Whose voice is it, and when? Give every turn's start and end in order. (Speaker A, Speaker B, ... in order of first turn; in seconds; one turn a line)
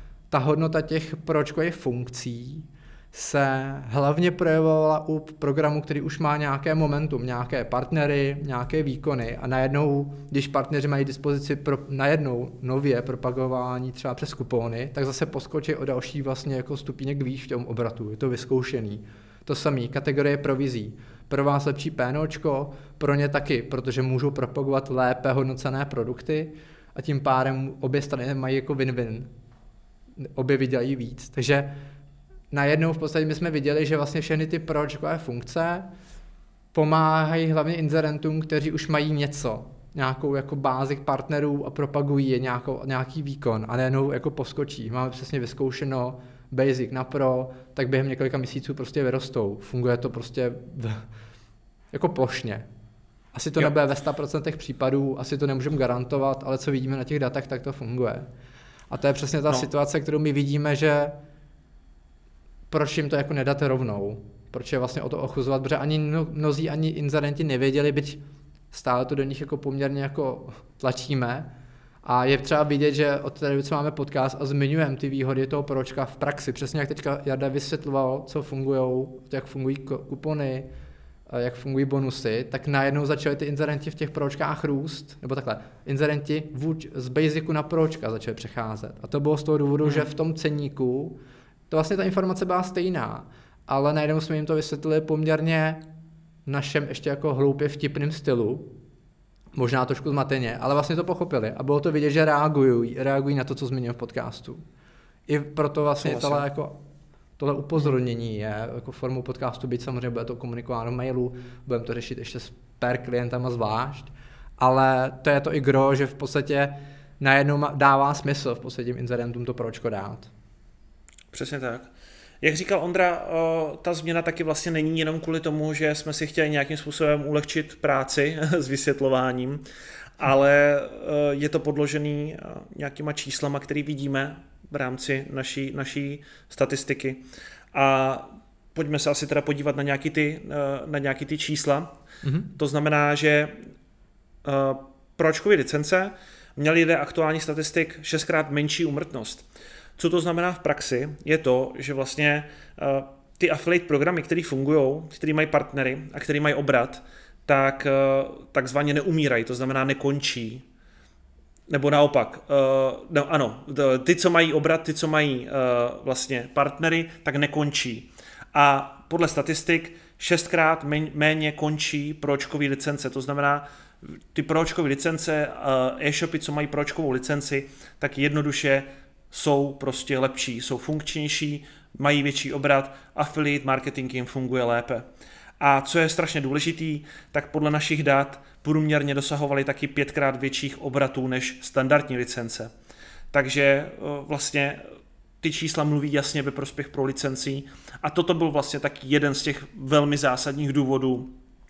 Speaker A: 0.3-29.3
Speaker A: 30.2-31.7
Speaker A: 32.5-35.9
Speaker A: 36.7-51.0
Speaker A: 51.9-52.7
Speaker A: 53.3-58.3
Speaker A: 58.9-61.1
Speaker A: 62.7-68.2
Speaker A: 68.7-71.5
Speaker A: 72.0-80.7
Speaker A: 81.3-91.2
Speaker B: 89.8-90.1
Speaker A: 91.7-95.9
Speaker A: 96.5-98.7
Speaker A: 99.5-104.6
Speaker A: 105.3-106.8
Speaker B: 106.0-106.4
Speaker A: 107.4-120.3
Speaker B: 121.3-121.9
Speaker B: 122.4-129.6
Speaker B: 130.2-142.0
Speaker A: 142.2-142.5
Speaker B: 142.6-143.6
Speaker B: 144.4-160.6
Speaker B: 161.7-185.1
Speaker B: 185.6-192.7
Speaker B: 193.3-194.8
Speaker B: 195.4-201.3